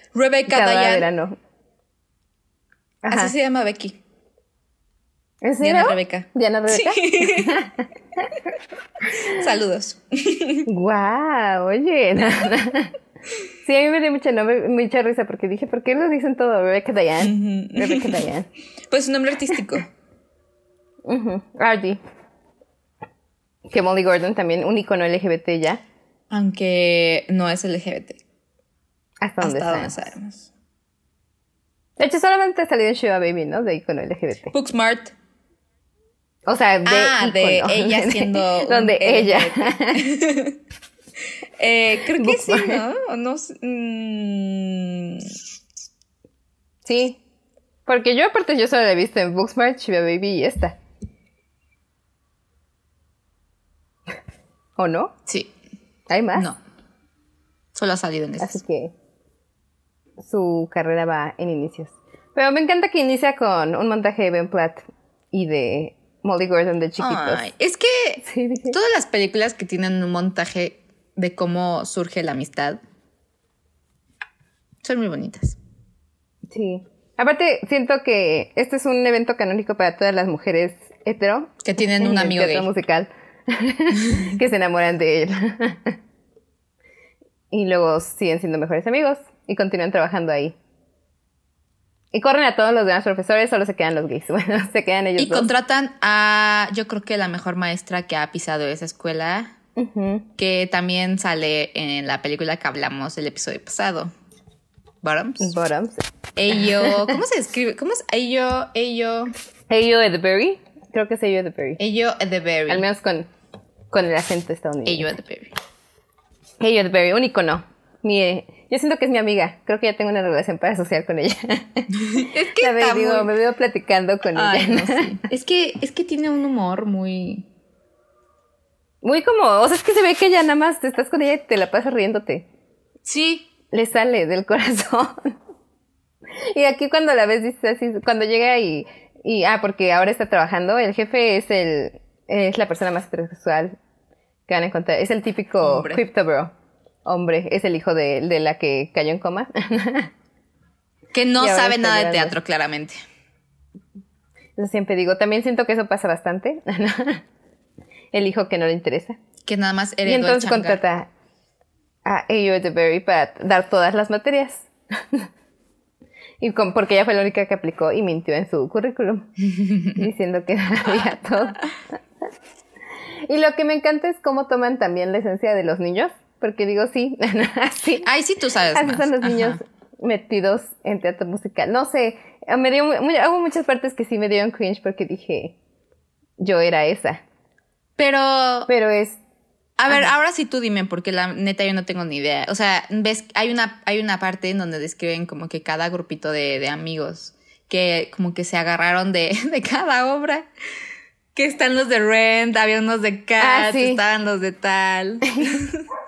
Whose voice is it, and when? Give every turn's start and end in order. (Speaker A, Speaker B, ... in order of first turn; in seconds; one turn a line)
Speaker A: 0.1-1.1
Speaker B: 0.5-1.4
Speaker B: 3.0-3.3
Speaker A: 3.1-4.0
Speaker B: 5.4-7.9
Speaker A: 5.6-7.7
Speaker A: 9.1-10.7
Speaker B: 10.7-12.9
Speaker B: 13.6-18.5
Speaker A: 17.2-18.2
Speaker A: 18.9-19.9
Speaker B: 21.1-22.0
Speaker B: 23.7-25.8
Speaker A: 26.3-28.2
Speaker B: 29.2-30.1
Speaker A: 29.4-30.5
Speaker B: 32.0-34.5
Speaker A: 34.5-35.1
Speaker B: 36.5-40.0
Speaker A: 36.8-40.6
Speaker A: 41.6-45.3
Speaker B: 42.1-42.8
Speaker B: 46.9-47.2
Speaker B: 47.9-50.8
Speaker B: 54.8-55.1
Speaker A: 55.2-55.5
Speaker B: 56.1-56.5
Speaker A: 56.3-56.6
Speaker A: 57.7-58.6
Speaker B: 58.4-58.9
Speaker B: 60.2-67.4
Speaker A: 67.0-72.8
Speaker B: 68.2-68.8
Speaker A: 74.8-75.6
Speaker B: 76.5-86.0
Speaker A: 81.6-82.7
Speaker B: 87.5-90.5
Speaker B: 92.1-95.5
Speaker A: 95.2-99.5
Speaker B: 99.8-100.3
Speaker A: 100.4-104.1
Speaker A: 105.0-105.5
Speaker B: 105.4-106.0
Speaker A: 106.3-109.3
Speaker B: 106.5-107.1
Speaker B: 109.7-111.8
Speaker A: 111.8-112.8
Speaker B: 112.7-113.3
Speaker B: 113.9-115.1
Speaker A: 114.8-115.5
Speaker B: 116.6-125.2
Speaker A: 121.9-123.3
Speaker A: 124.3-127.5
Speaker B: 129.0-132.4
Speaker A: 133.0-133.5
Speaker B: 133.7-135.3
Speaker B: 136.4-143.7
Speaker B: 144.5-146.5
Speaker A: 145.6-146.0
Speaker B: 147.0-150.1
Speaker A: 151.1-153.0
Speaker B: 151.4-152.3
Speaker B: 154.6-157.2
Speaker B: 158.1-159.2
Speaker A: 159.4-160.8
Speaker B: 160.1-161.1
Speaker B: 162.0-165.3
Speaker B: 166.4-171.7
Speaker B: 173.3-178.1
Speaker A: 178.0-179.6
Speaker B: 178.7-185.6
Speaker B: 186.4-187.2
Speaker A: 188.0-188.7
Speaker B: 188.7-189.2
Speaker A: 189.8-200.5
Speaker A: 201.3-205.8
Speaker B: 203.4-204.0
Speaker B: 205.3-205.6